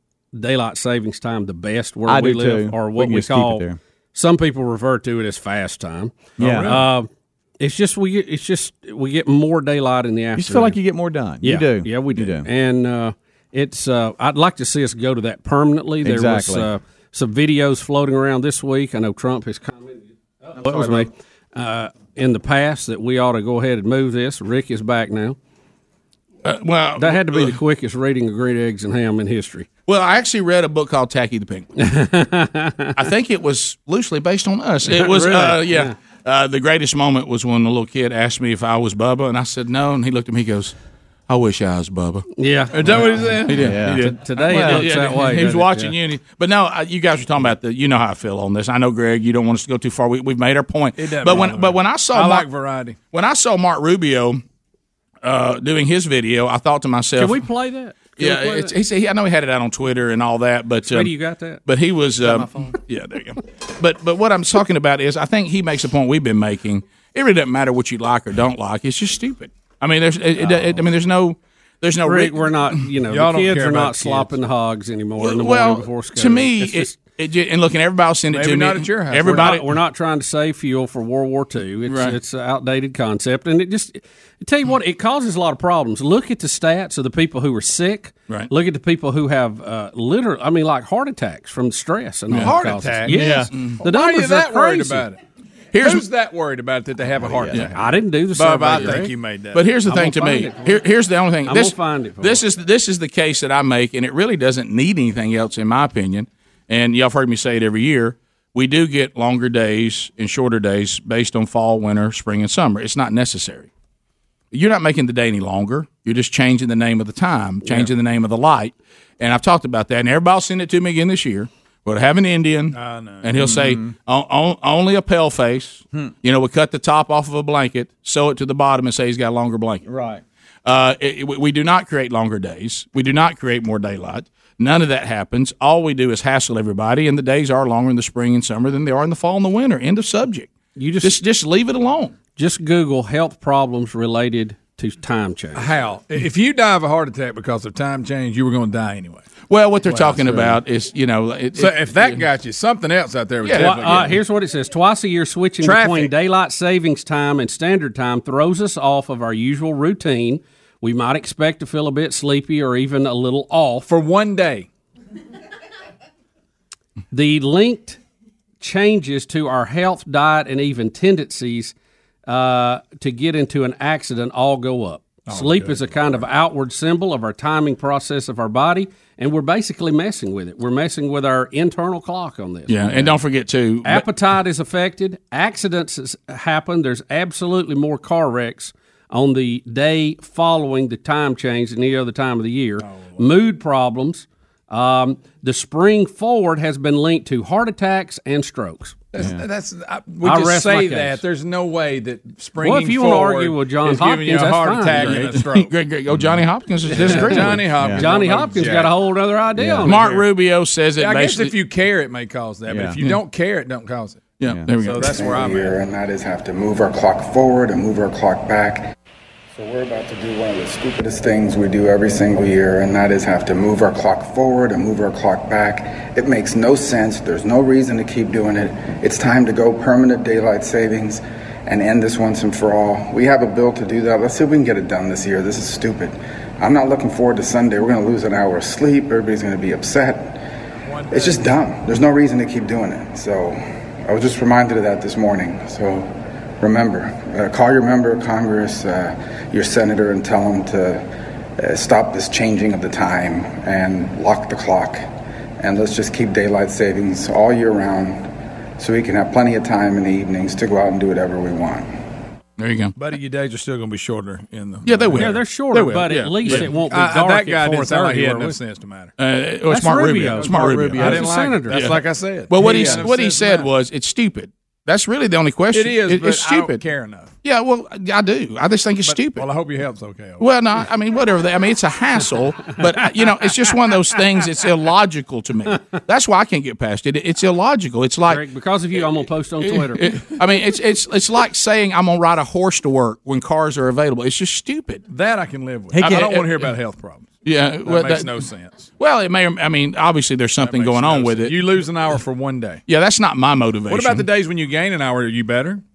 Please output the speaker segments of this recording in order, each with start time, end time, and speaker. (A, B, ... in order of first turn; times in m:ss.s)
0:00.3-0:07.1 A
0:02.1-0:03.8 B
0:06.4-0:06.8 B
0:06.4-0:06.8 C
0:07.6-0:10.8 A
0:10.4-0:12.4 B
0:11.4-0:25.4 A
0:16.0-0:16.7 B
0:20.6-0:21.1 B
0:26.4-0:27.6 D
0:27.0-0:29.7 A
0:29.9-0:31.7 D
0:31.8-0:33.0 A
0:33.0-0:40.7 D
0:34.8-0:35.9 A
0:41.3-0:42.3 D
0:42.4-0:45.9 A
0:42.7-0:44.0 C
0:43.5-0:44.9 B
0:43.5-0:43.8 D
0:44.5-0:52.5 D
0:51.0-0:53.0 C
0:53.0-0:54.4 D
0:55.2-0:57.4 D
0:57.2-0:58.7 A
0:58.2-1:01.1 D
1:00.8-1:01.6 A
1:01.6-1:12.7 D
1:02.2-1:02.6 A
1:12.0-1:17.0 A
1:13.1-1:14.3 C
1:15.2-1:19.7 D
1:18.3-1:19.6 C
1:19.2-1:35.1 A
1:21.9-1:22.2 D
1:32.3-1:35.2 C
1:33.1-1:33.5 B
1:33.5-1:33.8 D
1:35.7-1:36.0 D
1:35.8-1:39.7 C
1:37.2-1:37.6 B
1:37.7-1:39.1 A
1:39.5-1:53.7 D
1:39.8-1:40.8 A
1:41.4-1:42.4 A
1:54.5-2:09.8 D
1:57.6-1:57.9 A
2:02.7-2:03.7 C
2:03.4-2:03.9 B
2:09.8-2:10.2 B
2:10.6-2:22.1 D
2:20.8-2:21.2 A
2:22.4-2:25.8 A
2:25.5-2:29.3 C
2:29.4-2:32.2 D
2:29.8-2:30.6 C
2:31.6-2:34.2 C
2:33.4-2:34.0 D
2:33.5-2:43.8 A
2:35.6-2:36.1 C
2:43.8-2:44.7 C
2:47.1-2:48.0 A
2:48.6-2:51.7 A
2:52.3-3:03.1 A
2:55.3-2:56.2 C
3:02.7-3:04.1 D
3:03.8-3:19.0 A
3:12.8-3:13.2 C
3:19.1-3:25.7 C
3:20.2-3:21.2 A
3:22.6-3:25.3 A
3:25.0-3:27.7 D
3:26.9-3:29.0 C
3:26.9-3:30.0 A
3:27.8-3:28.0 B
3:29.6-3:29.9 B
3:29.8-3:31.5 D
3:29.9-3:30.2 C
3:31.0-3:35.8 C
3:32.7-3:32.9 B
3:34.4-3:35.1 D
3:35.0-3:38.9 E
3:39.5-4:00.4 E
4:00.8-4:01.6 C
4:01.1-4:06.1 E
4:06.6-4:11.0 E
4:11.6-4:15.1 E
4:15.6-4:21.9 E
4:22.6-4:22.9 D
4:23.0-4:25.4 C
4:24.8-4:26.7 D
4:25.1-4:28.6 A
4:26.0-4:29.1 C
4:29.2-4:31.9 D
4:29.7-4:31.9 A
4:30.2-4:33.7 C
4:30.6-4:31.2 B
4:32.5-4:36.8 D
4:32.7-4:33.0 B
4:35.7-4:37.3 C
4:37.4-4:39.5 D
4:39.0-4:40.5 C
4:40.4-4:48.4 D
4:48.3-4:50.3 A
4:49.6-4:55.0 D
4:55.1-4:58.9 C
4:55.9-4:56.3 B
4:56.0-4:56.7 D
4:57.4-4:58.4 D
4:59.0-5:01.6 D
5:00.6-5:02.8 C
5:02.9-5:04.3 D
5:03.9-5:05.8 C